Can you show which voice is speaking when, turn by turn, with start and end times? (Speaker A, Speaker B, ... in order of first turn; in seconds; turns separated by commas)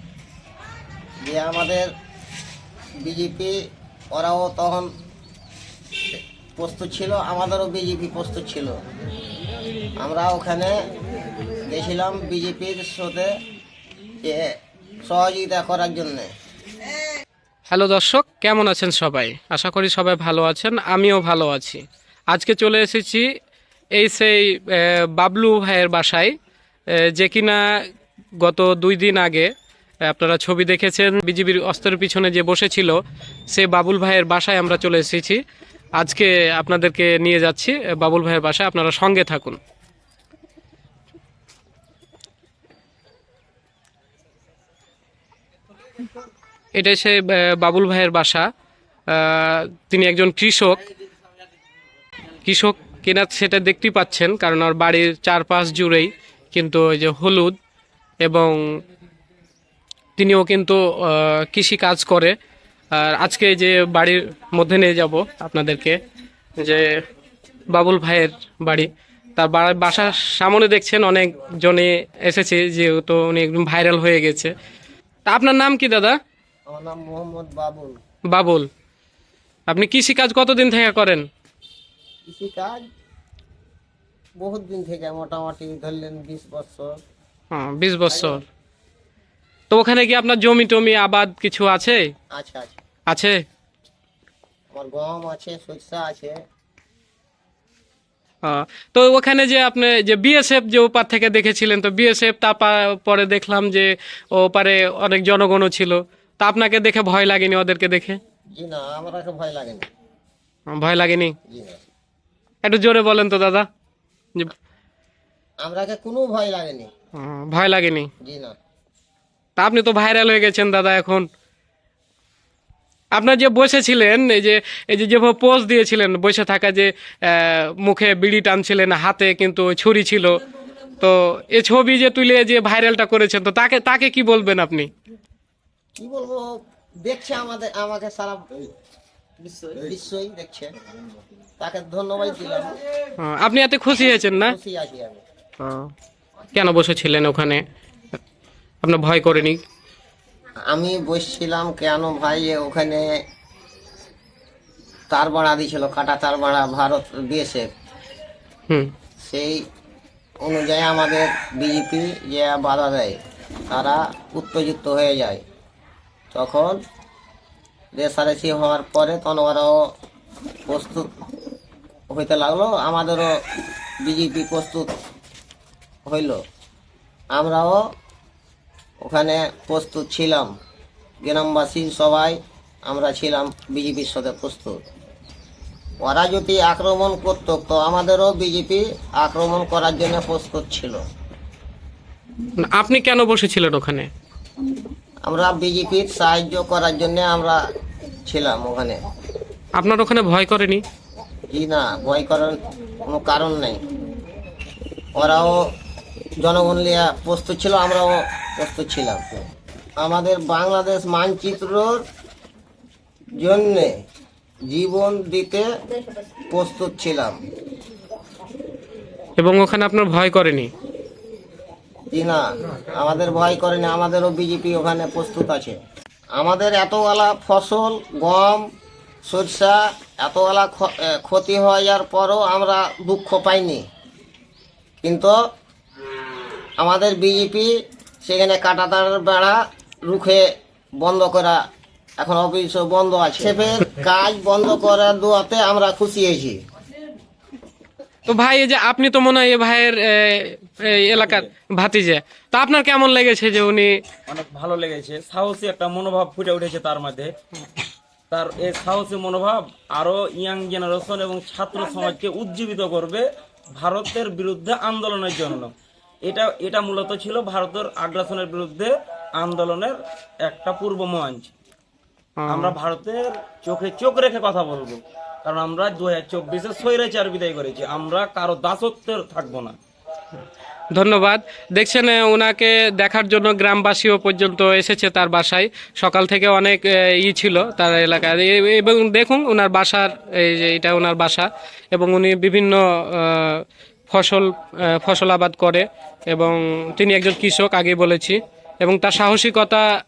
Speaker A: 1.2-1.9, Speaker A: 3.0-3.6, Speaker A: 4.1-4.9, Speaker A: 6.1-8.8, Speaker A: 10.0-10.8, Speaker A: 11.7-13.3, Speaker A: 14.2-14.5, Speaker A: 15.1-16.3, Speaker B: 17.7-23.3, Speaker B: 23.9-26.3, Speaker B: 26.9-27.6, Speaker B: 28.4-29.5, Speaker B: 30.1-33.0, Speaker B: 33.5-35.4, Speaker B: 36.0-39.6, Speaker B: 46.8-48.5, Speaker B: 49.1-50.8, Speaker B: 52.5-57.5, Speaker B: 58.2-58.6, Speaker B: 60.2-62.3, Speaker B: 62.9-66.0, Speaker B: 66.6-67.0, Speaker B: 67.7-74.5, Speaker B: 75.2-76.2, Speaker A: 76.7-78.0, Speaker B: 78.3-78.7, Speaker B: 79.7-81.2, Speaker A: 82.3-82.8, Speaker A: 84.4-87.0, Speaker B: 87.5-88.4, Speaker B: 89.7-92.1, Speaker A: 92.3-92.8, Speaker B: 93.1-93.4, Speaker A: 94.7-96.4, Speaker B: 98.4-108.2, Speaker A: 108.5-109.9, Speaker B: 110.7-111.3, Speaker A: 111.5-111.8, Speaker B: 112.6-113.7, Speaker A: 115.6-116.9, Speaker B: 117.1-118.1, Speaker A: 118.2-118.5, Speaker B: 119.6-121.2, Speaker B: 123.1-130.4, Speaker B: 131.0-134.9, Speaker A: 136.0-138.6, Speaker A: 139.7-140.7, Speaker A: 141.6-142.7, Speaker B: 143.2-144.5, Speaker A: 144.5-145.2, Speaker B: 145.6-145.9, Speaker B: 146.5-147.6, Speaker B: 148.8-149.6, Speaker A: 150.7-153.1, Speaker A: 155.1-157.7, Speaker A: 159.2-159.6, Speaker A: 160.4-163.2, Speaker A: 163.7-165.4, Speaker A: 166.3-166.8, Speaker A: 167.9-169.9, Speaker A: 170.7-171.1, Speaker A: 172.1-173.4, Speaker A: 174.0-174.9, Speaker A: 176.1-176.4, Speaker A: 177.3-177.9, Speaker A: 179.0-180.5, Speaker A: 181.2-184.8, Speaker A: 186.0-191.0, Speaker B: 192.6-194.1, Speaker A: 195.2-197.6, Speaker A: 198.2-199.0, Speaker B: 199.8-200.8, Speaker A: 201.5-203.8, Speaker A: 205.2-205.7, Speaker A: 206.4-209.4, Speaker A: 210.0-212.0, Speaker A: 213.3-213.9, Speaker A: 214.7-215.7, Speaker A: 216.5-217.4, Speaker B: 219.4-220.7, Speaker A: 222.1-225.8, Speaker A: 226.3-228.7, Speaker A: 229.2-233.8, Speaker A: 235.0-235.4, Speaker A: 236.8-237.7, Speaker A: 238.2-240.5, Speaker A: 241.0-241.6, Speaker A: 242.2-246.6, Speaker B: 248.3-254.0, Speaker C: 251.1-251.5, Speaker C: 254.3-257.3, Speaker C: 258.3-265.7, Speaker C: 266.2-271.5, Speaker B: 272.4-272.7, Speaker C: 272.5-279.8, Speaker B: 280.9-299.9